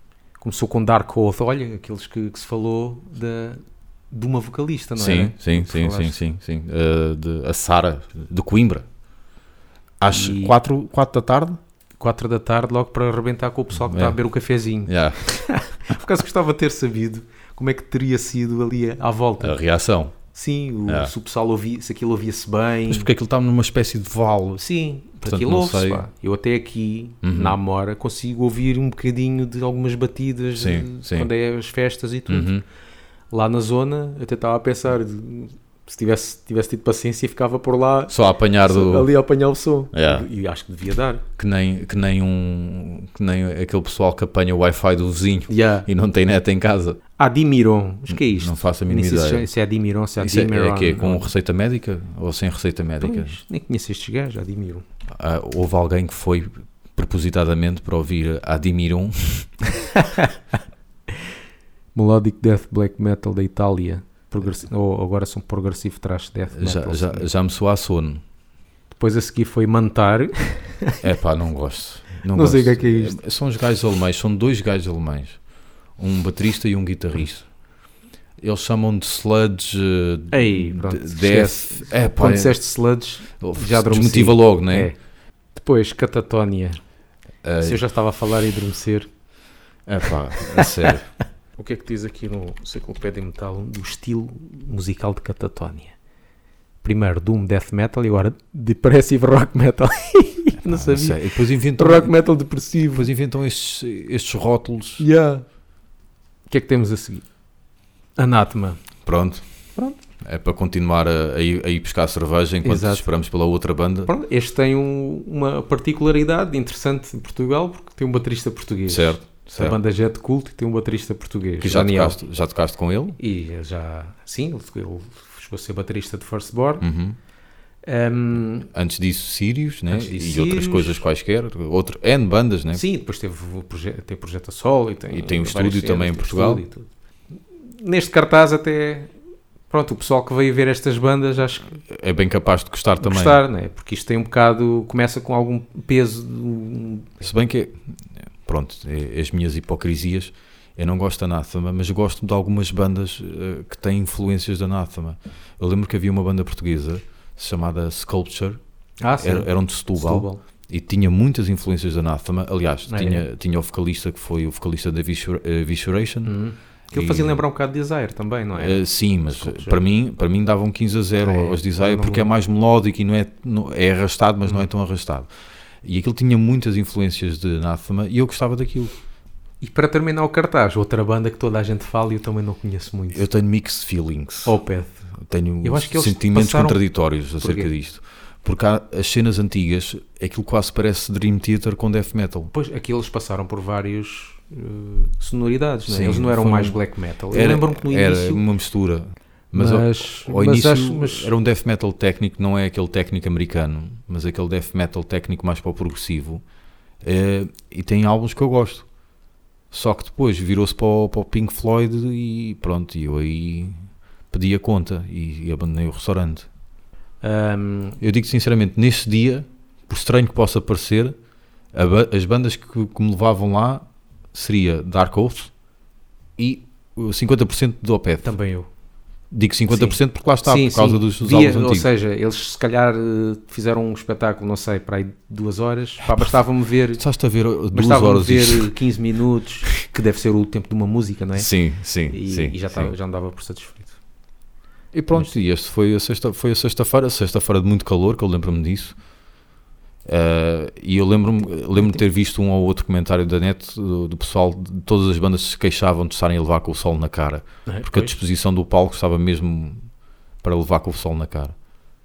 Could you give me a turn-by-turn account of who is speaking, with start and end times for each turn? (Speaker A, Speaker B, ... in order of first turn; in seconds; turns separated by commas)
Speaker A: 0.4-6.2, Speaker B: 5.0-8.8, Speaker B: 10.0-11.6, Speaker A: 10.1-10.6, Speaker A: 12.0-19.6, Speaker B: 13.8-14.2, Speaker B: 14.8-15.2, Speaker B: 19.4-20.1, Speaker A: 20.3-23.1, Speaker B: 20.9-21.1, Speaker B: 22.9-24.6, Speaker A: 24.6-32.5, Speaker B: 25.2-26.0, Speaker B: 27.2-27.6, Speaker B: 30.6-31.3, Speaker B: 32.3-32.6, Speaker A: 33.3-41.2, Speaker B: 38.1-39.1, Speaker B: 39.9-40.3, Speaker B: 41.4-47.0, Speaker A: 45.5-45.9, Speaker A: 47.2-51.3, Speaker B: 48.1-49.5, Speaker B: 50.2-53.4, Speaker A: 53.0-54.8, Speaker B: 55.1-59.5, Speaker A: 59.8-60.3, Speaker A: 61.9-67.3, Speaker B: 66.5-68.2, Speaker A: 68.9-71.0, Speaker B: 71.0-75.4, Speaker A: 72.3-73.2, Speaker B: 76.0-77.5, Speaker B: 78.4-82.5, Speaker A: 80.3-85.0, Speaker B: 83.4-84.9, Speaker A: 85.5-86.8, Speaker B: 87.4-87.8, Speaker A: 87.6-89.1, Speaker B: 89.9-91.1, Speaker A: 90.5-90.9, Speaker A: 91.6-95.9, Speaker A: 96.8-101.2, Speaker B: 100.6-102.1, Speaker A: 101.7-103.1, Speaker B: 102.9-105.0, Speaker A: 105.0-105.4, Speaker A: 106.5-107.2, Speaker A: 108.2-108.8, Speaker B: 109.0-109.4, Speaker B: 110.2-114.1, Speaker A: 112.6-113.1, Speaker A: 114.0-122.2, Speaker B: 118.9-119.8, Speaker B: 121.6-123.2, Speaker A: 123.2-126.8, Speaker B: 126.8-127.2, Speaker A: 127.8-128.7, Speaker B: 128.7-132.8, Speaker A: 129.9-131.0, Speaker A: 132.7-136.9, Speaker B: 135.1-136.6, Speaker A: 137.6-139.1, Speaker A: 139.7-141.8, Speaker B: 141.9-143.4, Speaker A: 143.0-147.2, Speaker B: 147.2-158.6, Speaker A: 159.0-160.4, Speaker B: 159.2-166.4, Speaker A: 162.9-163.2, Speaker A: 166.2-169.8, Speaker B: 166.9-167.4, Speaker B: 168.5-175.3, Speaker A: 171.2-172.3, Speaker B: 175.8-178.9, Speaker A: 179.6-183.2, Speaker B: 183.1-184.6, Speaker A: 184.4-185.0, Speaker B: 185.2-192.5, Speaker A: 185.6-186.8, Speaker A: 187.4-187.7, Speaker A: 192.5-198.4, Speaker B: 195.9-206.4, Speaker A: 199.5-201.3, Speaker B: 207.0-208.8, Speaker B: 209.7-216.5, Speaker A: 217.2-218.0, Speaker B: 218.0-221.1, Speaker B: 221.7-225.5, Speaker B: 226.4-228.3, Speaker A: 228.2-228.7, Speaker B: 229.3-231.9, Speaker A: 229.7-237.0, Speaker B: 237.0-238.7, Speaker A: 237.7-241.5, Speaker B: 241.3-242.9, Speaker A: 242.1-244.0, Speaker B: 244.9-248.9, Speaker B: 250.0-259.9, Speaker A: 257.6-258.1, Speaker B: 260.4-261.5